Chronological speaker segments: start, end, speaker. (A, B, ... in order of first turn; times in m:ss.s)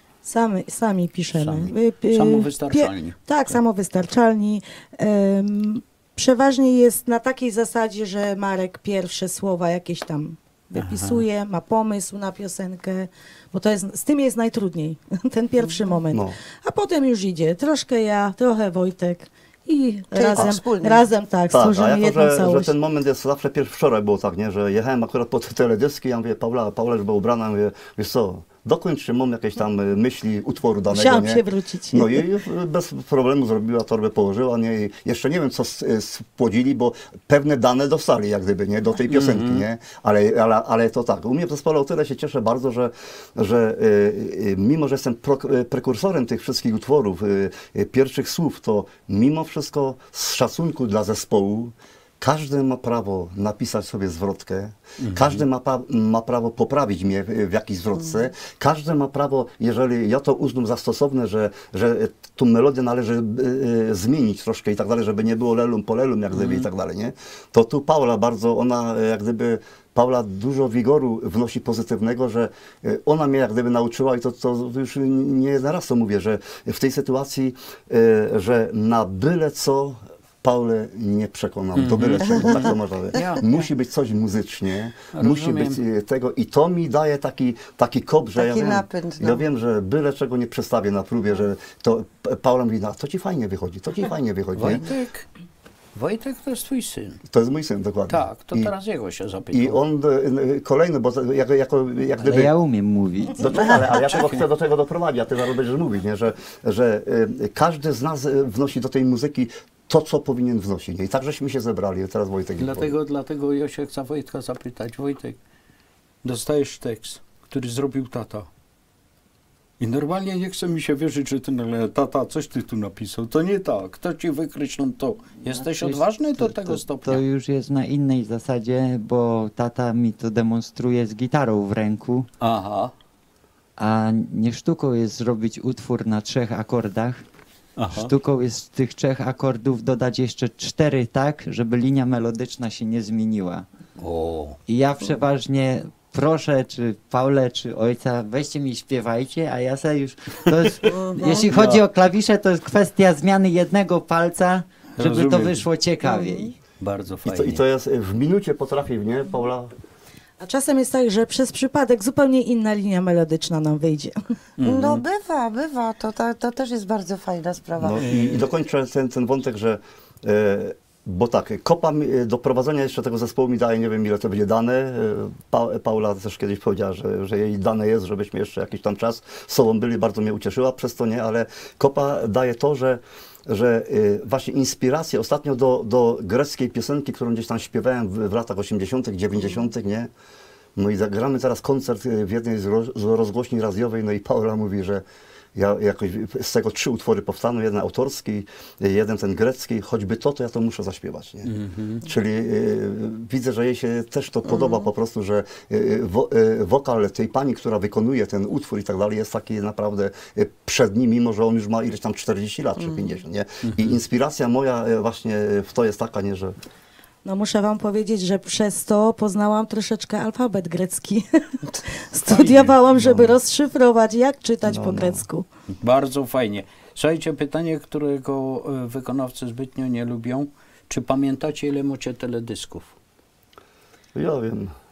0:00.2-0:22.7 A
0:01.3-0:03.6 B
0:10.8-0:11.2 B
0:15.6-0:15.9 C
0:16.1-0:16.4 D
0:20.1-0:21.1 C
0:21.5-1:34.8 D
0:30.9-0:32.3 A
0:39.1-0:39.6 B
0:55.0-0:55.4 B
1:06.3-1:06.7 B
1:21.8-1:23.6 B
1:22.2-1:22.7 C
1:25.1-1:25.8 B
1:28.4-1:29.4 C
1:34.6-1:35.3 B
1:36.0-1:37.2 B
1:37.3-1:38.7 D
1:38.1-1:39.8 B
1:39.5-1:42.5 D
1:42.2-1:43.8 E
1:43.4-1:52.9 D
1:44.0-1:44.4 B
1:52.6-1:55.4 B
1:56.2-1:58.5 B
1:59.8-2:07.2 B
2:05.4-2:12.3 E
2:12.4-2:12.9 B
2:13.8-2:17.2 E
2:17.8-2:18.1 B
2:17.9-2:23.6 E
2:24.0-2:24.6 B
2:24.7-2:36.6 E
2:30.8-2:31.6 C
2:35.0-2:35.6 B
2:36.0-2:36.4 C
2:36.8-2:37.6 B
2:37.2-2:39.7 D
2:40.4-2:44.1 A
2:44.6-2:45.0 B
2:44.6-2:48.0 C
2:47.8-3:10.1 D
2:48.0-2:48.5 B
3:10.8-3:15.0 D
3:15.6-3:21.5 D
3:21.5-3:22.0 B
3:22.0-3:36.6 D
3:24.5-3:24.9 C
3:32.8-3:33.2 C
3:33.6-3:34.0 B
3:37.2-3:45.5 A
3:42.3-3:42.8 B
3:43.0-3:43.3 D
3:44.6-3:45.2 D
3:45.8-3:52.9 B
3:54.2-3:54.8 D